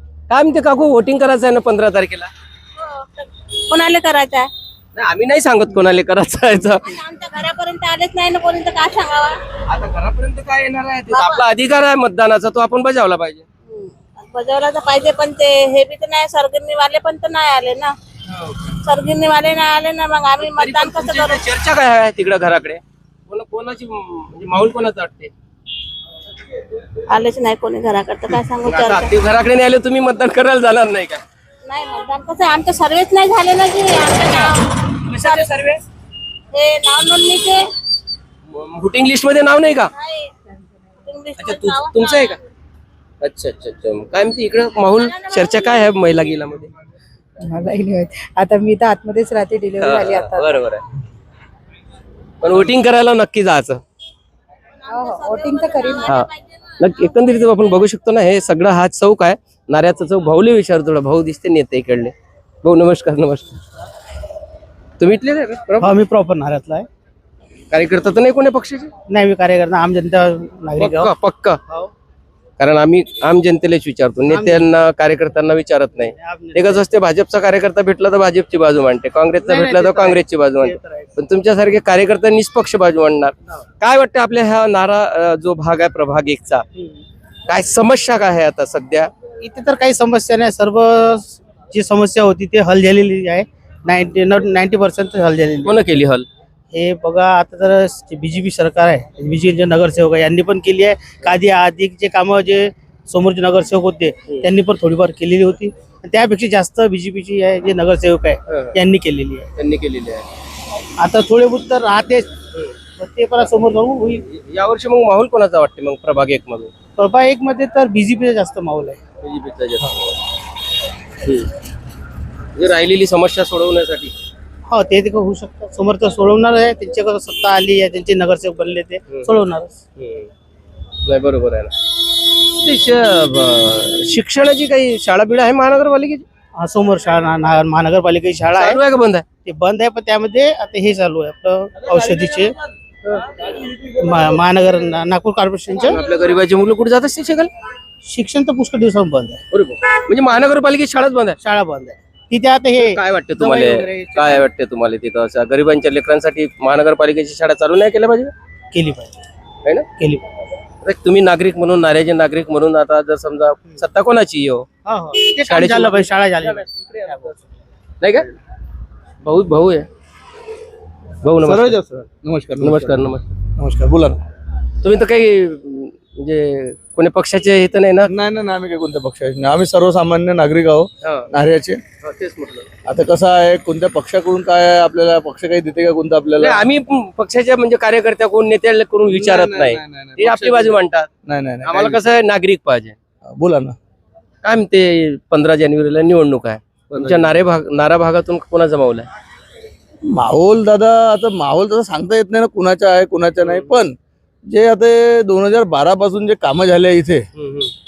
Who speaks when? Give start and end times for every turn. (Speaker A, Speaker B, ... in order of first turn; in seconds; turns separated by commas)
Speaker A: 0.3-2.3, Speaker B: 2.8-4.5, Speaker A: 4.9-7.0, Speaker B: 6.8-9.4, Speaker A: 9.7-13.4, Speaker B: 11.1-11.4, Speaker B: 13.7-17.9, Speaker A: 18.3-18.7, Speaker B: 18.8-21.4, Speaker A: 20.4-25.3, Speaker B: 27.1-29.1, Speaker A: 28.6-31.2, Speaker B: 31.6-35.5, Speaker A: 34.5-35.8, Speaker B: 36.5-37.7, Speaker A: 38.5-39.9, Speaker B: 39.9-40.3, Speaker B: 41.0-42.4, Speaker A: 41.4-42.4, Speaker A: 43.2-46.7, Speaker B: 45.1-45.8, Speaker C: 47.4-50.6, Speaker A: 49.8-50.8, Speaker A: 52.4-53.8, Speaker B: 54.8-56.4, Speaker C: 54.9-56.0, Speaker A: 56.0-63.6, Speaker A: 65.0-65.9, Speaker D: 65.8-66.9, Speaker A: 67.7-68.9, Speaker D: 69.1-71.1, Speaker A: 70.8-71.6, Speaker D: 71.7-71.9, Speaker A: 72.6-86.7, Speaker D: 74.3-74.7, Speaker D: 76.0-76.8, Speaker D: 79.4-81.1, Speaker A: 87.5-89.1, Speaker D: 89.4-95.8, Speaker A: 95.6-96.3, Speaker D: 96.7-109.5, Speaker A: 108.5-108.8, Speaker A: 109.5-110.2, Speaker D: 111.0-112.3, Speaker D: 113.0-114.2, Speaker A: 114.2-116.7, Speaker D: 117.0-119.0, Speaker A: 119.2-120.2, Speaker A: 121.2-121.5, Speaker A: 122.5-124.1, Speaker D: 124.7-129.8, Speaker A: 130.0-130.3, Speaker A: 131.1-131.7, Speaker A: 132.4-136.2, Speaker D: 136.6-138.8, Speaker A: 138.5-139.2, Speaker D: 139.4-142.5, Speaker D: 144.0-146.0, Speaker A: 145.7-147.5, Speaker D: 148.0-149.4, Speaker A: 149.5-151.4, Speaker D: 151.4-154.5, Speaker A: 152.8-158.3, Speaker D: 158.7-159.1, Speaker D: 160.0-160.2, Speaker A: 160.8-164.7, Speaker D: 164.8-167.4, Speaker A: 165.4-167.3, Speaker A: 168.0-168.3, Speaker A: 169.2-169.9, Speaker A: 171.2-171.8, Speaker E: 171.4-173.0, Speaker A: 172.6-173.3, Speaker E: 173.6-174.2, Speaker A: 174.8-178.1, Speaker E: 178.0-181.8, Speaker A: 181.0-181.3, Speaker A: 182.0-182.7, Speaker E: 182.8-186.7, Speaker A: 186.4-191.1, Speaker E: 189.1-192.0, Speaker A: 191.6-192.9, Speaker E: 193.3-193.8, Speaker A: 194.4-199.1, Speaker E: 196.9-197.4, Speaker E: 200.0-207.2, Speaker A: 203.4-203.8, Speaker A: 207.3-207.7